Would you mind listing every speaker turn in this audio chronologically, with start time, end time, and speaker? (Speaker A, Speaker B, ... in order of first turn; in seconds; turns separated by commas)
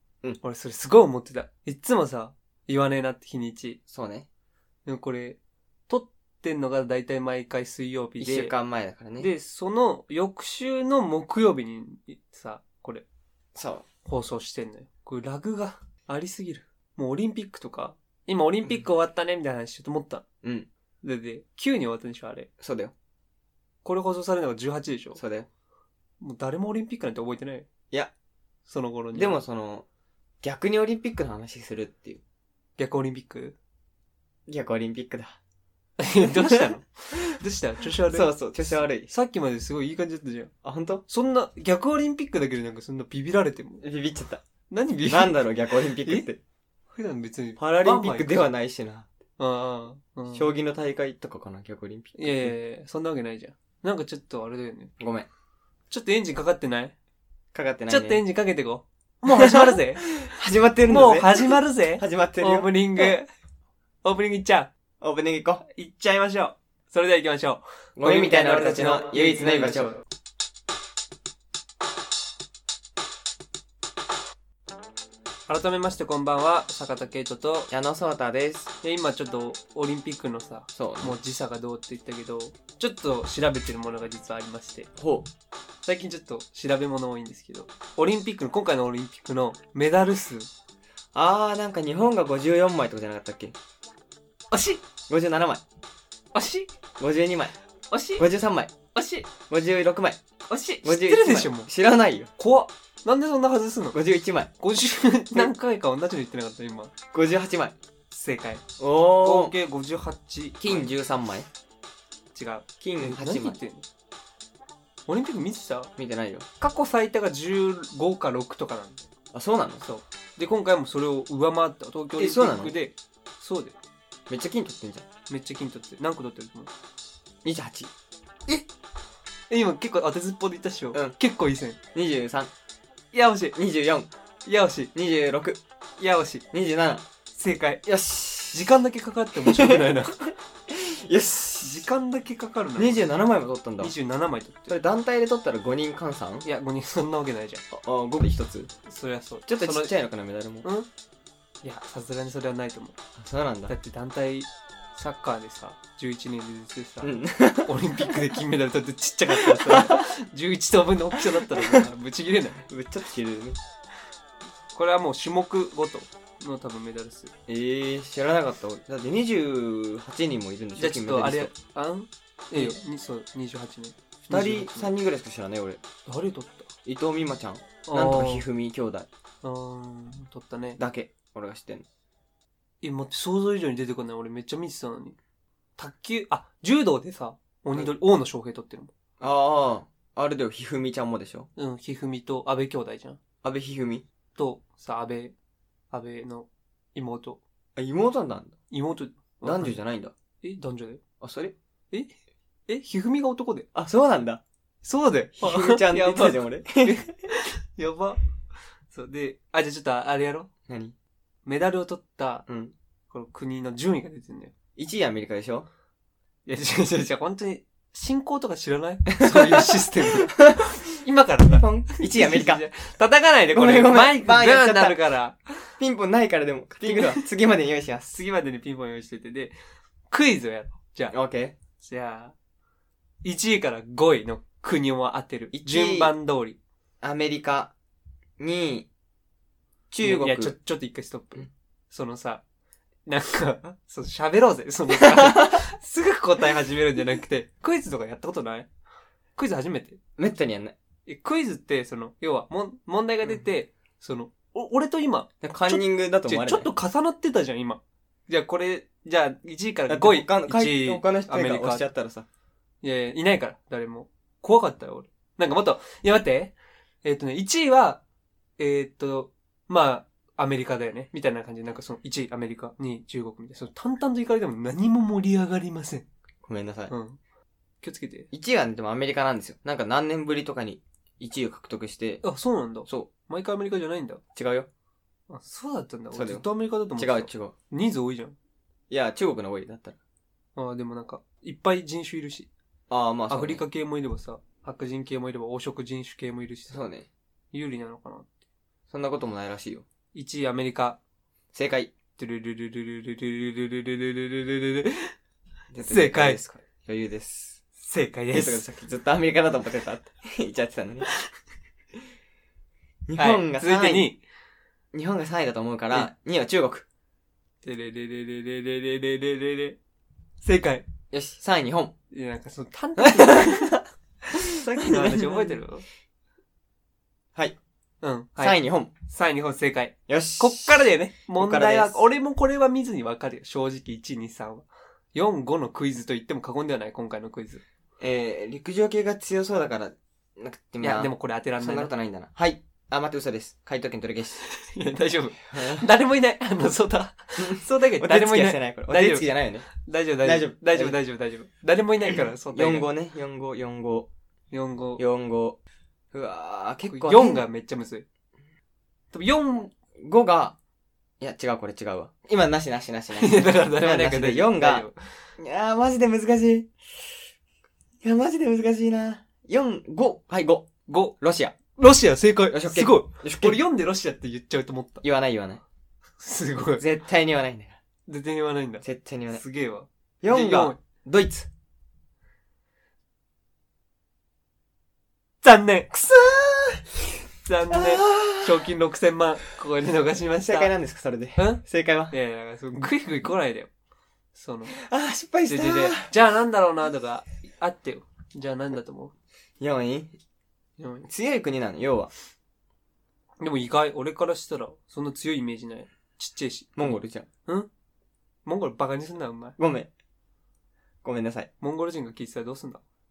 Speaker A: 0.4-3.8, Speaker B: 3.9-4.3, Speaker A: 4.8-8.5, Speaker B: 8.2-9.3, Speaker A: 9.2-13.0, Speaker B: 13.5-13.8, Speaker A: 14.0-20.2, Speaker B: 20.4-20.7, Speaker A: 21.0-22.5, Speaker B: 22.6-22.9, Speaker A: 23.8-25.2, Speaker B: 25.1-25.5, Speaker A: 26.2-27.7, Speaker A: 28.7-29.4, Speaker B: 29.1-29.8, Speaker B: 30.4-32.2, Speaker A: 32.8-33.5, Speaker B: 34.5-35.4, Speaker A: 36.0-40.5, Speaker B: 36.3-36.6, Speaker B: 38.1-39.1, Speaker B: 40.6-41.0, Speaker A: 41.1-43.8, Speaker B: 43.8-44.4, Speaker A: 44.7-46.3, Speaker B: 45.0-46.4, Speaker A: 46.9-48.5, Speaker B: 47.6-49.1, Speaker A: 49.4-50.5, Speaker B: 50.3-52.5, Speaker A: 52.1-54.9, Speaker B: 55.0-55.3, Speaker A: 55.9-56.9, Speaker B: 57.5-58.2, Speaker A: 57.9-60.1, Speaker B: 59.3-63.1, Speaker A: 60.9-63.3, Speaker A: 64.0-64.7, Speaker B: 65.0-65.6, Speaker A: 65.6-70.0, Speaker B: 68.0-70.0, Speaker A: 75.5-77.7, Speaker B: 77.7-78.7, Speaker A: 78.8-84.9, Speaker B: 80.8-81.2, Speaker B: 85.0-85.3, Speaker A: 85.8-90.5, Speaker B: 91.1-93.5, Speaker A: 94.5-94.8, Speaker B: 95.1-95.6, Speaker A: 96.3-96.7, Speaker B: 97.0-97.5, Speaker A: 97.9-98.2, Speaker B: 98.2-100.2, Speaker A: 98.9-99.3, Speaker A: 100.5-101.7, Speaker B: 100.8-102.3, Speaker A: 102.4-104.0, Speaker B: 103.9-104.5, Speaker A: 104.6-106.9, Speaker B: 107.1-107.7, Speaker A: 108.1-108.6, Speaker B: 108.8-109.5, Speaker A: 109.2-110.9, Speaker B: 110.6-111.5, Speaker A: 112.3-113.8, Speaker B: 112.8-113.6, Speaker A: 115.1-115.9, Speaker B: 116.0-116.4, Speaker A: 116.6-119.0, Speaker B: 119.3-119.8, Speaker A: 119.8-123.8, Speaker B: 122.2-122.7, Speaker B: 124.3-125.0, Speaker A: 125.3-126.7, Speaker B: 127.4-127.9, Speaker A: 129.5-131.8, Speaker B: 131.9-132.5, Speaker A: 133.1-133.6, Speaker B: 133.5-134.1, Speaker A: 134.4-134.9, Speaker B: 134.9-135.6, Speaker A: 136.0-136.4, Speaker B: 136.5-137.0, Speaker A: 137.3-137.8, Speaker B: 137.8-138.7, Speaker A: 138.5-140.3, Speaker B: 139.4-139.9, Speaker B: 140.7-141.9, Speaker A: 141.6-143.1, Speaker B: 142.8-143.9, Speaker A: 143.8-144.7, Speaker B: 144.7-146.5, Speaker A: 146.4-147.6, Speaker B: 147.7-148.7, Speaker A: 148.8-149.9, Speaker B: 149.5-150.7, Speaker A: 150.6-150.9, Speaker A: 151.6-152.9, Speaker B: 153.2-153.7, Speaker A: 153.7-162.6, Speaker B: 157.0-158.2, Speaker B: 159.3-160.1, Speaker B: 161.2-161.9, Speaker B: 162.7-163.6, Speaker A: 164.7-167.3, Speaker B: 167.5-171.5, Speaker A: 170.8-174.9, Speaker B: 174.3-175.8, Speaker A: 176.1-176.7, Speaker B: 176.8-179.1, Speaker A: 177.8-178.4, Speaker A: 179.4-180.8, Speaker B: 180.8-181.8, Speaker A: 182.8-185.2, Speaker A: 185.8-188.9, Speaker B: 189.2-191.5, Speaker A: 191.6-193.2, Speaker B: 193.4-194.0, Speaker A: 194.3-195.3, Speaker A: 195.9-197.4, Speaker B: 197.8-198.6, Speaker A: 198.7-199.8, Speaker B: 199.4-200.1, Speaker A: 200.4-201.0, Speaker B: 201.2-201.5, Speaker A: 202.7-203.7, Speaker B: 203.7-204.4, Speaker A: 204.8-208.2, Speaker B: 205.4-207.1, Speaker A: 208.9-210.5, Speaker B: 210.7-210.9, Speaker A: 211.4-212.5, Speaker B: 212.5-212.7, Speaker A: 213.1-214.5, Speaker B: 214.8-215.7, Speaker A: 216.4-225.7, Speaker B: 219.2-220.8, Speaker B: 221.4-222.6, Speaker B: 223.5-225.0, Speaker B: 225.8-228.1, Speaker A: 226.8-227.2, Speaker A: 228.1-229.5, Speaker A: 230.1-231.1, Speaker B: 231.1-231.5, Speaker A: 231.8-232.3, Speaker A: 233.2-236.6, Speaker B: 235.5-236.1, Speaker B: 237.0-237.7, Speaker B: 238.4-238.9, Speaker B: 239.9-240.5, Speaker A: 240.0-242.4, Speaker A: 243.1-248.7, Speaker A: 249.3-250.0, Speaker B: 250.2-250.7, Speaker A: 251.1-261.9, Speaker B: 255.4-256.7, Speaker B: 259.9-262.2, Speaker A: 262.8-268.0, Speaker A: 268.6-276.1, Speaker B: 276.4-276.9, Speaker A: 276.9-277.2, Speaker A: 277.8-278.3, Speaker B: 278.3-282.2, Speaker A: 282.2-284.2, Speaker B: 284.3-284.7, Speaker A: 285.3-288.4, Speaker B: 286.1-287.5, Speaker B: 288.9-290.0, Speaker A: 290.6-292.5, Speaker B: 292.9-293.6, Speaker A: 293.3-296.8, Speaker B: 296.7-297.1, Speaker A: 297.5-298.3, Speaker B: 298.9-299.8, Speaker A: 300.1-301.0, Speaker B: 301.5-301.9, Speaker A: 302.2-305.1, Speaker B: 305.7-307.6, Speaker A: 305.8-306.4, Speaker A: 307.8-308.6, Speaker B: 308.3-311.1, Speaker B: 313.1-314.1, Speaker A: 313.2-314.2, Speaker B: 314.9-316.8, Speaker A: 317.6-319.8, Speaker A: 320.4-320.8, Speaker B: 321.1-321.9, Speaker A: 322.1-323.8, Speaker B: 323.0-323.7, Speaker B: 324.4-325.6, Speaker A: 324.7-325.9, Speaker A: 328.0-337.6, Speaker B: 328.4-328.9, Speaker B: 330.1-330.8, Speaker B: 331.4-332.0, Speaker B: 338.0-344.4, Speaker A: 340.8-341.9, Speaker A: 344.4-352.9, Speaker B: 345.5-345.9, Speaker B: 347.4-349.7, Speaker B: 350.2-351.0, Speaker B: 352.5-354.1, Speaker A: 354.5-355.0, Speaker B: 355.0-355.6, Speaker B: 356.1-357.4, Speaker A: 356.9-358.1, Speaker A: 359.1-359.7, Speaker B: 360.0-360.6, Speaker B: 361.2-364.9, Speaker A: 363.2-365.0, Speaker B: 365.4-366.7, Speaker B: 368.0-370.7, Speaker A: 370.9-371.1, Speaker B: 371.2-371.6, Speaker A: 371.7-375.0, Speaker B: 372.5-373.6, Speaker B: 375.0-375.6, Speaker A: 376.2-376.8, Speaker B: 376.8-377.8, Speaker A: 378.1-380.8, Speaker B: 378.8-379.4, Speaker B: 380.2-381.5, Speaker A: 385.4-386.1, Speaker B: 386.1-386.8, Speaker A: 387.4-390.7, Speaker B: 387.7-388.6, Speaker B: 390.4-392.1, Speaker A: 391.4-393.7, Speaker A: 394.3-394.8, Speaker B: 394.7-396.1, Speaker A: 395.5-399.1, Speaker B: 399.6-400.1, Speaker A: 400.8-401.1, Speaker B: 401.0-402.1, Speaker A: 403.4-407.7, Speaker B: 406.8-407.3, Speaker A: 408.4-409.6, Speaker B: 409.6-409.9, Speaker B: 411.0-411.5, Speaker A: 411.6-412.8